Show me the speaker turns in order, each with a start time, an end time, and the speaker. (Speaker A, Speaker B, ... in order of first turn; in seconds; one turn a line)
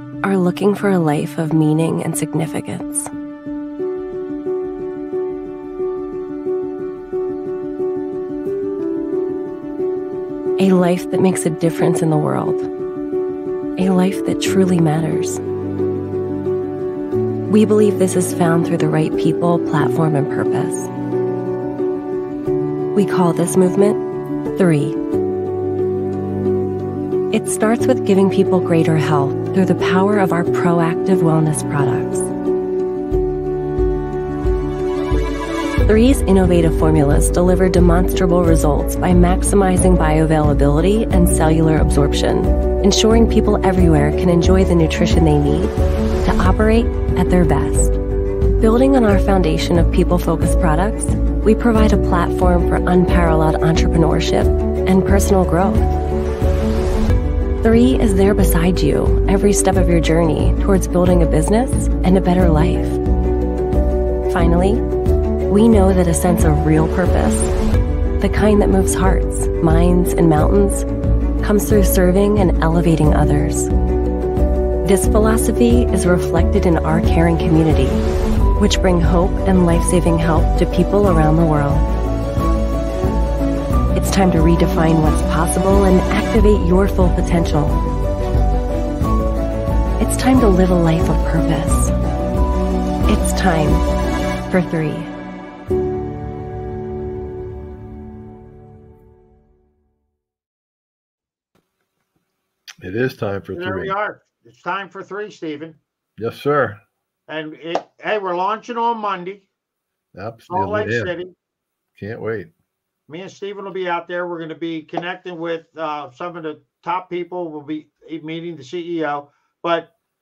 Speaker A: 0.2-3.1
Speaker A: 10.6-12.7
Speaker A: 13.8-15.4
Speaker A: 17.5-20.9
Speaker A: 22.9-24.0
Speaker A: 24.6-25.0
Speaker A: 27.3-32.3
Speaker A: 35.9-48.0
Speaker A: 48.6-56.0
Speaker A: 57.6-63.0
Speaker A: 64.3-64.8
Speaker A: 65.5-67.5
Speaker A: 68.2-70.9
Speaker A: 71.4-73.7
Speaker A: 74.8-78.0
Speaker A: 78.6-81.9
Speaker A: 84.0-87.8
Speaker A: 90.0-91.9
Speaker A: 93.1-93.8
Speaker A: 94.5-95.1
Speaker B: 102.8-103.9
Speaker C: 103.5-105.8
Speaker B: 106.2-106.8
Speaker C: 107.3-109.5
Speaker B: 110.1-111.2
Speaker C: 110.5-111.3
Speaker B: 112.0-112.5
Speaker C: 113.1-119.9